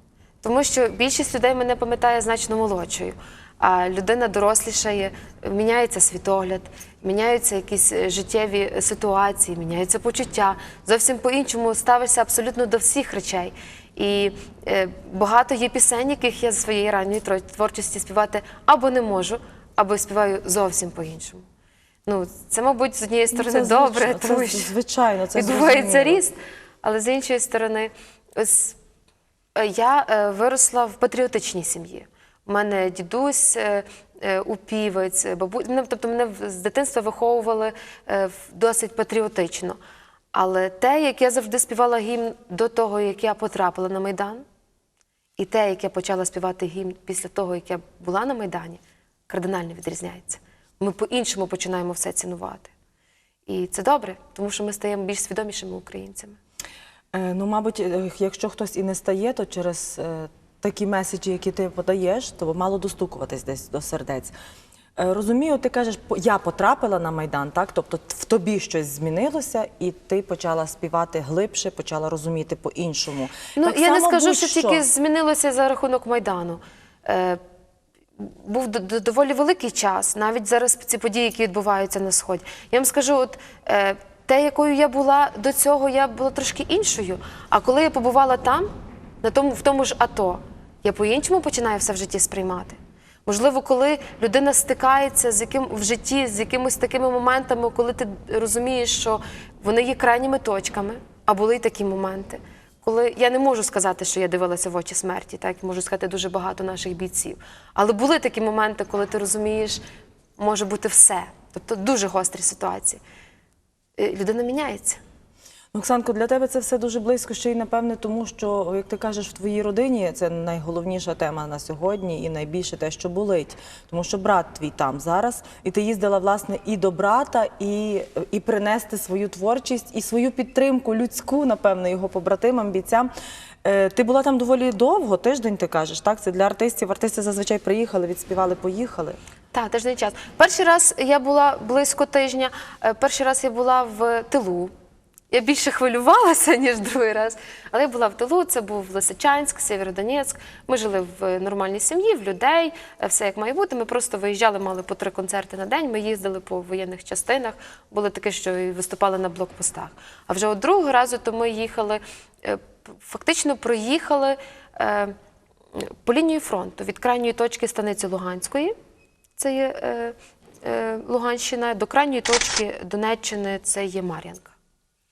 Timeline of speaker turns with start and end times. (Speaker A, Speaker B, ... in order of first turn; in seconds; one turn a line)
Speaker A: 0.4-21.5
Speaker A: 22.1-24.7
Speaker B: 23.3-26.2
Speaker A: 25.4-28.8
Speaker A: 29.6-39.8
Speaker A: 40.3-44.5
Speaker A: 45.4-52.7
Speaker A: 53.5-56.4
Speaker B: 57.1-64.3
Speaker B: 65.0-74.9
Speaker A: 73.6-77.4
Speaker A: 78.2-88.7
Speaker A: 89.2-109.8
Speaker A: 110.4-113.0
Speaker A: 114.0-115.0
Speaker B: 115.7-133.1
Speaker B: 133.6-139.2
Speaker A: 139.5-144.7
Speaker A: 145.3-165.2
Speaker A: 165.8-168.8
Speaker A: 169.4-174.5